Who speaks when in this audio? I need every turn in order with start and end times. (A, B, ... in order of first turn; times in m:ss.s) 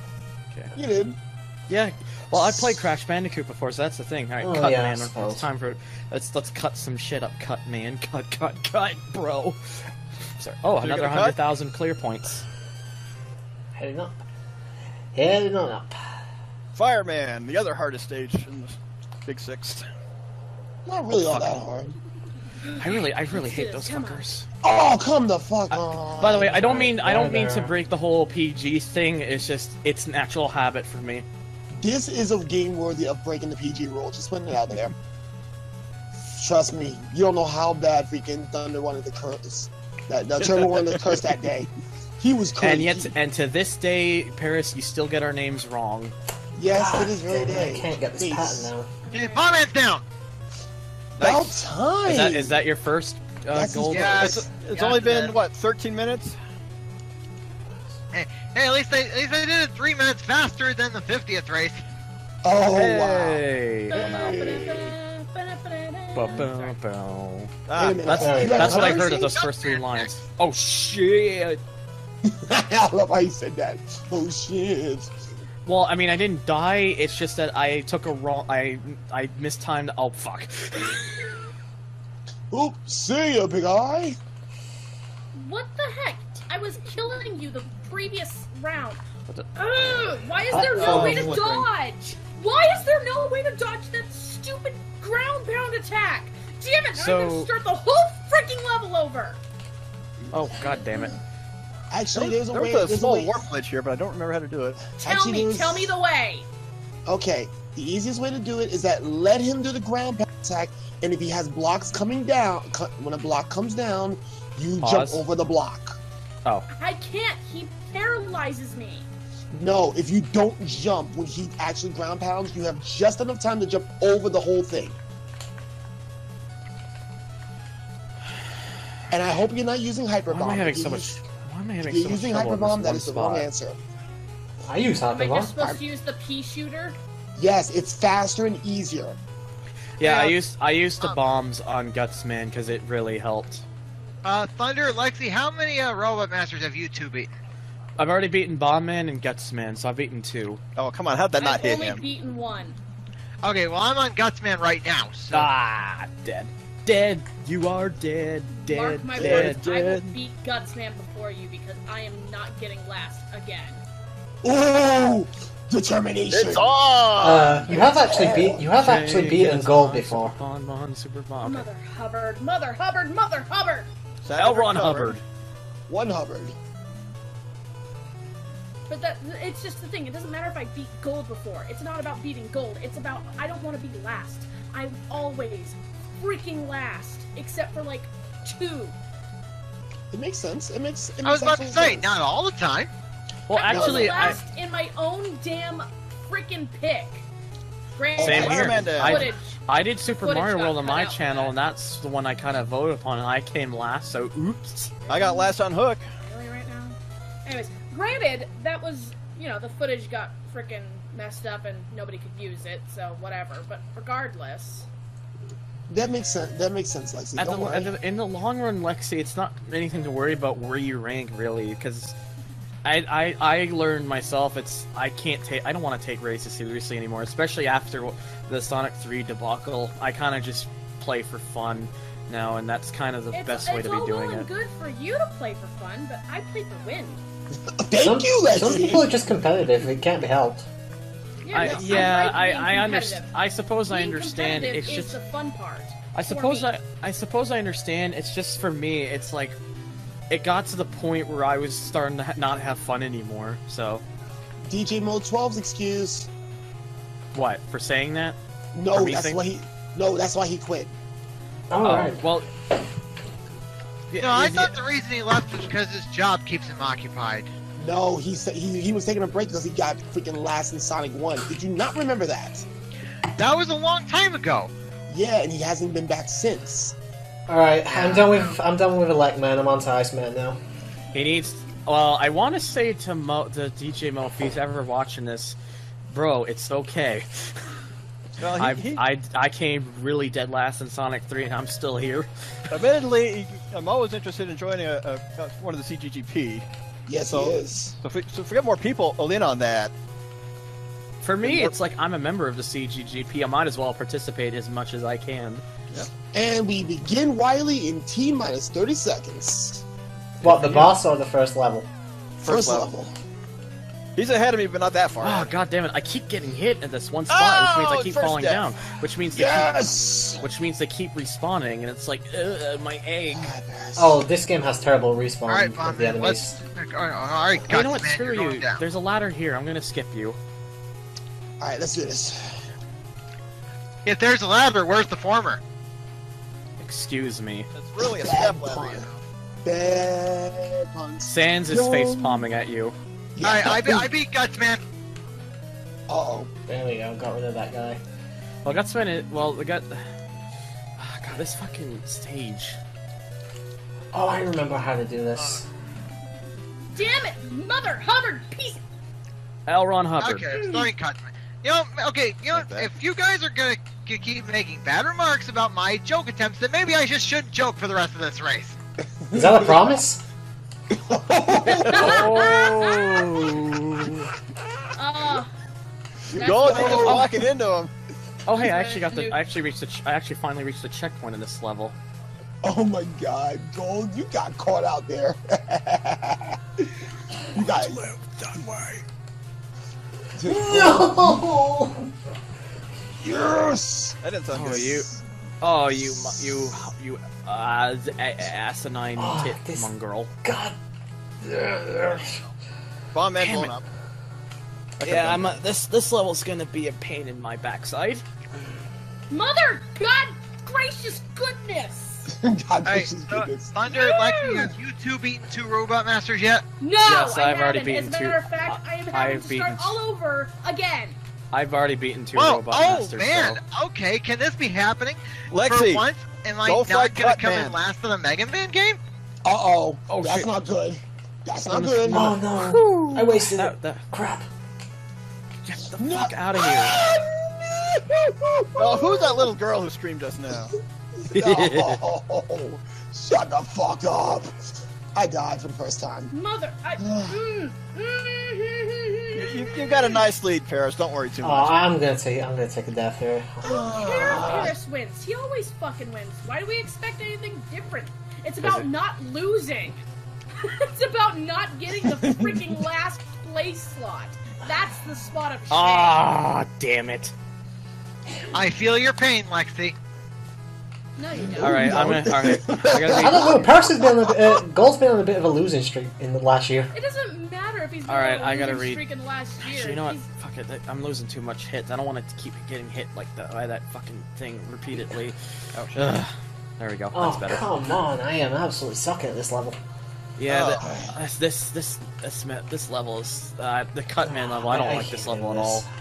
0:00.8-0:01.2 A
0:01.7-0:12.4 B
0:02.3-0:02.8 A
0:04.4-0:05.5 C
0:10.8-0:11.4 D
0:13.8-0:14.2 C
0:15.1-0:16.0 C
0:16.8-0:19.8 D
0:20.9-0:22.0 A
0:21.3-0:21.6 B
0:22.6-0:24.3 E
0:22.7-0:24.5 B
0:24.6-0:26.9 A
0:25.7-0:31.3 B
0:26.4-0:27.7 C
0:31.8-0:35.0 A
0:36.2-0:41.7 A
0:42.2-0:43.1 A
0:42.6-0:46.2 B
0:46.6-0:48.7 A
0:46.7-0:48.9 C
0:49.0-0:49.6 E
0:49.1-0:50.0 F
0:51.2-0:51.6 D
0:51.2-0:52.5 A
0:52.0-0:54.5 B
0:53.5-0:54.5 A
0:53.9-0:55.4 F
0:54.4-0:56.4 D
0:58.1-1:01.8 F
1:02.4-1:03.4 A
1:02.7-1:04.6 B
1:03.9-1:06.7 E
1:04.0-1:05.0 A
1:06.1-1:07.5 B
1:07.7-1:08.4 D
1:07.8-1:09.3 A
1:08.1-1:11.6 B
1:08.2-1:09.0 C
1:09.2-1:10.1 F
1:12.3-1:15.1 A
1:15.7-1:21.0 B
1:22.5-1:24.2 A
1:25.3-1:29.0 E
1:29.3-1:30.1 B
1:29.6-1:39.4 E
1:30.5-1:31.4 C
1:30.8-1:31.6 D
1:37.0-1:37.5 B
1:40.3-1:41.2 B
1:41.9-1:43.4 A
1:42.1-1:44.8 D
1:45.0-1:45.9 A
1:45.0-1:46.5 E
1:47.1-1:56.0 A
1:54.8-1:55.2 B
1:56.7-1:59.1 E
1:59.5-2:05.0 A
2:09.1-2:11.2 A
2:10.3-2:13.5 B
2:11.8-2:13.8 A
2:14.6-2:15.6 C
2:15.1-2:17.0 E
2:17.4-2:19.2 A
2:20.0-2:23.6 B
2:24.2-2:27.4 F
2:28.0-2:30.6 B
2:30.8-2:32.0 D
2:31.4-2:32.8 E
2:33.4-2:35.5 F
2:35.3-2:39.7 B
2:38.7-2:43.8 E
2:39.2-2:40.1 D
2:44.4-2:46.7 A
2:46.3-2:47.7 D
2:47.2-2:50.4 C
2:47.7-2:48.7 A
2:48.8-2:51.7 B
2:51.4-2:53.9 E
2:54.2-2:55.2 D
2:54.4-2:55.2 B
2:55.9-2:56.6 A
2:58.9-3:09.0 E
3:10.1-3:12.2 A
3:11.2-3:12.9 F
3:13.5-3:14.4 B
3:13.5-3:17.2 E
3:13.7-3:14.4 A
3:18.0-3:19.6 E
3:18.2-3:19.3 D
3:18.2-3:24.9 B
3:20.2-3:21.5 E
3:25.0-3:25.5 E
3:25.1-3:26.0 D
3:26.2-3:34.9 E
3:35.9-3:37.9 A
3:37.4-3:42.2 B
3:42.8-3:54.5 B
3:53.3-3:57.2 E
3:57.8-3:59.1 A
3:58.0-4:00.7 C
4:01.4-4:03.3 E
4:01.5-4:05.2 B
4:01.6-4:02.1 A
4:03.9-4:06.7 E
4:06.1-4:09.6 B
4:10.3-4:14.0 B
4:14.7-4:16.3 A
4:17.3-4:18.4 B
4:18.7-4:20.9 A
4:18.9-4:19.4 B
4:21.7-4:22.2 C
4:21.8-4:22.5 B
4:24.1-4:24.8 B
4:24.2-4:27.5 F
4:27.8-4:32.7 A
4:33.4-4:34.7 F
4:35.1-4:37.0 A
4:37.5-4:40.6 C
4:37.9-4:38.3 B
4:41.1-4:45.6 B
4:46.1-4:47.6 B
4:48.4-4:49.0 D
4:48.6-4:52.3 B
4:52.7-4:56.7 D
4:57.1-4:58.0 A
4:57.3-4:59.9 D
5:01.2-5:05.6 B
5:01.4-5:01.7 D
5:06.3-5:09.8 A
5:10.4-5:11.9 C
5:10.4-5:11.0 B
5:12.4-5:12.9 D
5:12.4-5:13.2 A
5:14.2-5:15.5 D
5:15.2-5:19.8 B
5:17.3-5:18.7 D
5:19.3-5:20.4 A
5:20.4-5:23.5 B
5:23.4-5:24.2 A
5:24.0-5:26.6 C
5:25.5-5:28.8 F
5:27.7-5:30.4 B
5:31.6-5:32.6 A
5:34.0-5:35.6 F
5:36.8-5:37.7 B
5:37.7-5:39.1 D
5:38.0-5:39.1 A
5:39.6-5:42.5 A
5:41.2-5:43.0 B
5:43.4-5:44.1 A
5:43.4-5:44.8 F
5:46.1-5:46.5 A
5:46.7-5:48.0 C
5:48.6-5:50.0 B
5:51.0-5:52.8 B
5:54.1-5:55.7 C
5:56.9-5:58.8 E
5:59.7-6:00.5 B
6:00.2-6:08.8 F
6:00.6-6:00.9 E
6:02.5-6:02.9 D
6:09.3-6:10.0 A
6:09.3-6:10.2 C
6:10.9-6:12.8 A
6:11.7-6:13.5 E
6:11.8-6:12.2 D
6:11.9-6:14.3 B
6:15.0-6:15.5 E
6:16.3-6:17.4 A
6:16.3-6:17.3 E
6:16.3-6:17.9 D
6:18.5-6:22.0 B
6:18.5-6:19.4 E
6:22.6-6:26.9 A
6:27.5-6:28.0 A
6:27.6-6:29.0 B
6:30.4-6:31.4 A
6:30.4-6:32.0 C
6:33.2-6:34.2 A
6:34.2-6:35.0 D
6:34.5-6:40.3 B
6:34.8-6:35.1 A
6:36.0-6:36.6 A
6:39.2-6:39.9 C
6:40.4-6:40.8 C
6:41.4-6:42.3 C
6:41.6-6:42.2 B
6:43.1-6:43.8 D
6:43.4-6:43.7 B
6:45.0-6:48.3 B
6:45.0-6:45.6 D
6:49.3-6:52.3 E
6:52.3-6:53.8 A
6:52.8-6:56.6 F
6:53.9-6:54.8 E
6:56.8-7:01.2 E
6:57.0-7:00.0 B
7:01.5-7:03.6 B
7:02.3-7:09.0 F
7:05.5-7:06.1 D
7:06.6-7:07.8 D
7:09.4-7:12.3 A
7:10.1-7:10.5 B
7:11.7-7:14.0 B
7:12.1-7:14.5 C
7:15.6-7:17.0 B
7:16.0-7:19.5 A
7:18.8-7:20.8 D
7:21.2-7:24.5 A
7:21.3-7:22.0 B
7:25.2-7:26.3 A
7:26.3-7:30.2 E
7:27.0-7:27.4 A
7:29.4-7:31.8 D
7:31.4-7:34.7 C
7:33.6-7:34.8 A
7:33.6-7:40.0 E
7:38.6-7:38.9 B
7:40.6-7:46.2 E
7:42.0-7:42.8 A
7:45.7-7:47.3 B
7:48.5-7:50.0 F
7:51.2-7:52.1 E
7:51.3-7:54.3 A
7:51.6-7:53.9 B
7:53.2-7:56.9 C
7:56.9-8:00.3 E
7:58.1-7:59.0 B
7:59.6-8:05.4 B
8:05.7-8:06.0 D
8:05.9-8:07.7 B
8:07.1-8:09.8 C
8:10.4-8:15.8 B
8:10.5-8:10.8 D
8:10.8-8:11.2 A
8:14.2-8:15.9 C